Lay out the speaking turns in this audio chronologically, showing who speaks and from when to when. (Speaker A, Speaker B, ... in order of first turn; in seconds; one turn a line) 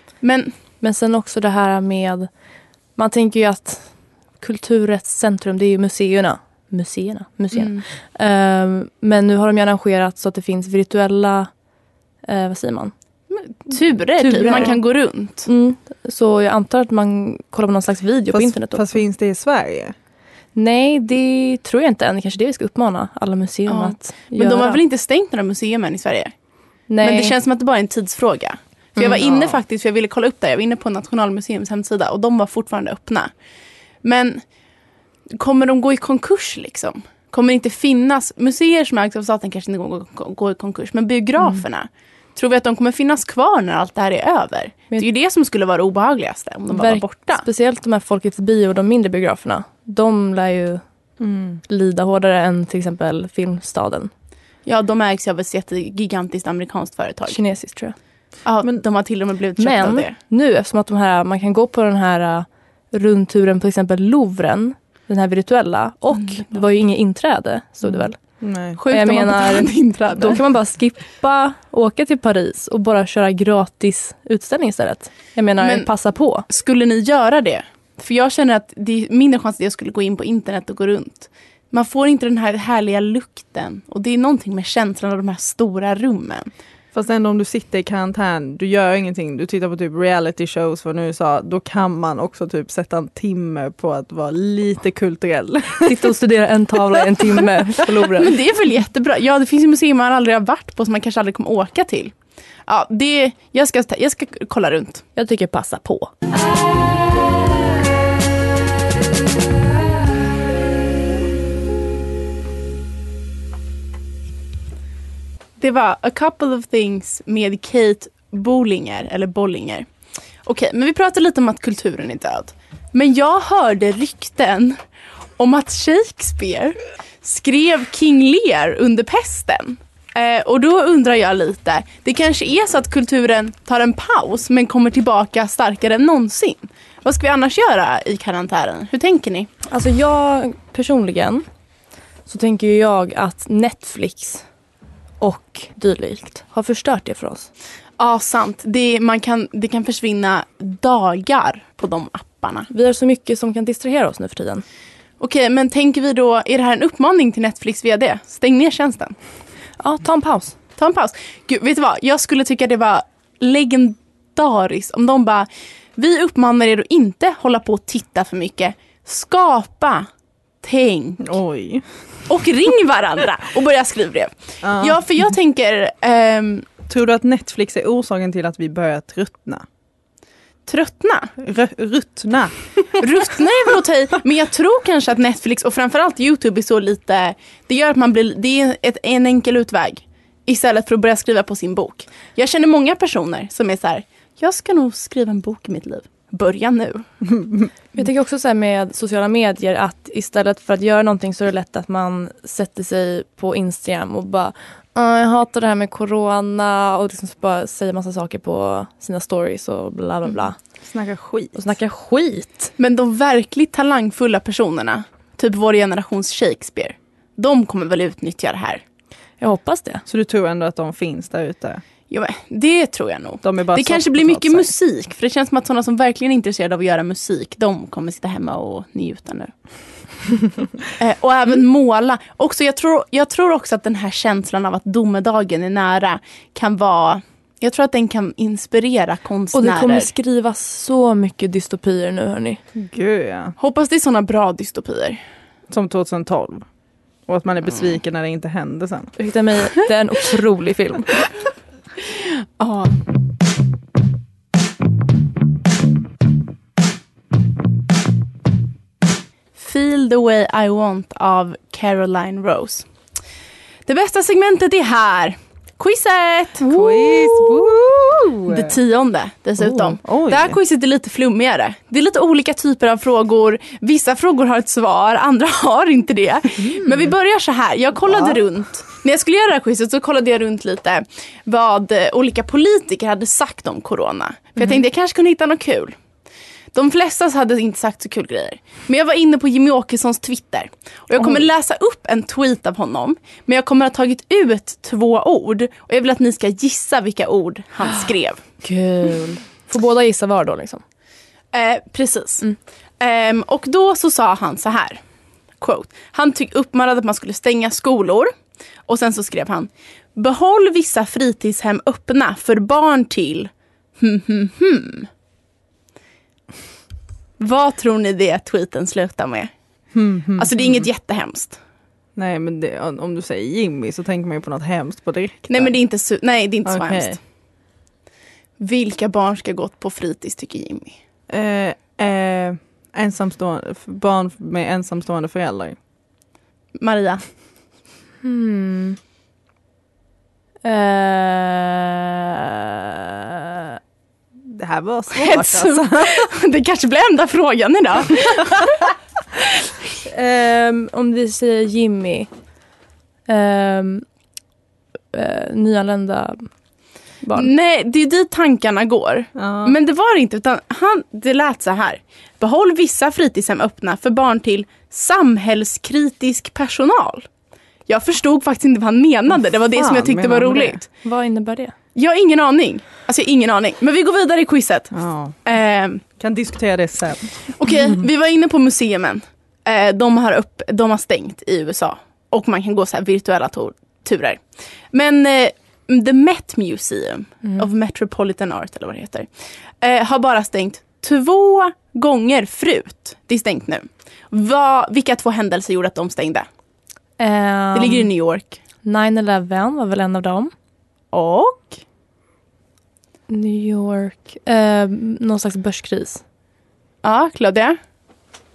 Speaker A: 0.2-0.5
Speaker B: 0.8-2.3
Speaker B: 3.0-3.9
Speaker B: 4.4-11.5
Speaker A: 7.5-7.8
Speaker B: 12.2-12.9
Speaker A: 13.3-15.5
Speaker B: 14.2-14.8
Speaker B: 15.4-19.0
Speaker C: 18.3-19.9
Speaker B: 20.5-24.8
Speaker A: 23.7-26.3
Speaker B: 26.9-27.3
Speaker A: 27.0-33.3
Speaker C: 29.2-29.6
Speaker A: 34.0-34.4
Speaker A: 35.3-47.5
Speaker B: 46.7-50.8
Speaker C: 51.2-51.6
Speaker B: 51.7-54.1
Speaker A: 54.6-57.4
Speaker B: 57.3-57.9
Speaker A: 58.4-60.1
Speaker B: 59.6-68.2
Speaker C: 67.8-68.8
Speaker A: 68.8-70.4
Speaker B: 68.8-76.5
Speaker A: 75.6-75.9
Speaker A: 76.5-86.5
Speaker C: 86.9-96.1
Speaker B: 95.8-98.3
Speaker A: 98.2-102.1
Speaker A: 102.7-105.0
Speaker B: 105.2-106.1
Speaker A: 115.6-119.8
Speaker A: 120.4-124.8
Speaker A: 125.4-139.5
Speaker B: 139.7-141.4
Speaker B: 142.3-144.4
Speaker B: 145.2-147.5
Speaker A: 148.0-152.7
Speaker B: 152.7-154.6
Speaker A: 155.2-159.2
Speaker B: 159.8-160.5
Speaker A: 160.8-170.1
Speaker A: 170.6-171.2
Speaker C: 171.2-171.8
Speaker A: 172.3-176.7
Speaker C: 174.6-175.0
Speaker C: 176.8-179.6
Speaker A: 180.7-181.3
Speaker C: 181.4-183.0
Speaker A: 183.0-197.0
Speaker C: 197.3-197.7
Speaker B: 197.9-210.6
Speaker C: 210.8-211.6
Speaker B: 211.5-212.7
Speaker A: 212.8-218.8
Speaker B: 219.4-220.0
Speaker C: 220.1-221.8
Speaker A: 222.1-229.5
Speaker C: 223.4-224.7
Speaker A: 231.0-240.1
Speaker B: 239.5-242.6
Speaker C: 242.7-243.5
Speaker A: 243.6-245.2
Speaker C: 245.7-246.7
Speaker C: 247.3-249.1
Speaker B: 249.2-251.1
Speaker A: 252.6-252.9
Speaker A: 259.6-262.9
Speaker A: 263.9-266.8
Speaker C: 266.6-268.8
Speaker B: 267.1-267.4
Speaker A: 268.5-285.9
Speaker C: 269.6-270.6
Speaker B: 276.6-277.1
Speaker C: 278.1-278.4
Speaker A: 286.7-298.4
Speaker B: 298.6-300.8
Speaker A: 301.5-302.5
Speaker A: 303.0-305.0
Speaker A: 305.6-308.3
Speaker A: 308.9-315.1
Speaker A: 317.4-319.5
Speaker C: 319.9-320.9
Speaker A: 320.4-321.6
Speaker C: 322.1-325.7
Speaker A: 325.5-327.2
Speaker C: 326.6-327.2
Speaker A: 328.6-331.0
Speaker C: 331.3-335.8
Speaker A: 336.8-337.2
Speaker B: 338.2-339.0
Speaker B: 340.6-343.7
Speaker C: 344.5-346.3
Speaker A: 345.1-349.5
Speaker B: 350.1-352.3
Speaker B: 353.3-354.0
Speaker B: 355.1-356.5
Speaker B: 357.2-357.5
Speaker A: 357.3-367.3
Speaker C: 359.4-359.8
Speaker A: 367.9-370.9
Speaker C: 369.7-370.8
Speaker B: 371.0-371.7
Speaker A: 371.9-374.9
Speaker C: 374.9-375.4
Speaker A: 375.4-376.0
Speaker C: 376.2-377.5
Speaker A: 377.6-389.3
Speaker A: 389.8-396.5
Speaker B: 397.2-398.1
Speaker A: 397.7-398.6
Speaker B: 398.8-400.5
Speaker A: 401.1-401.8
Speaker B: 403.3-406.2
Speaker A: 407.0-407.8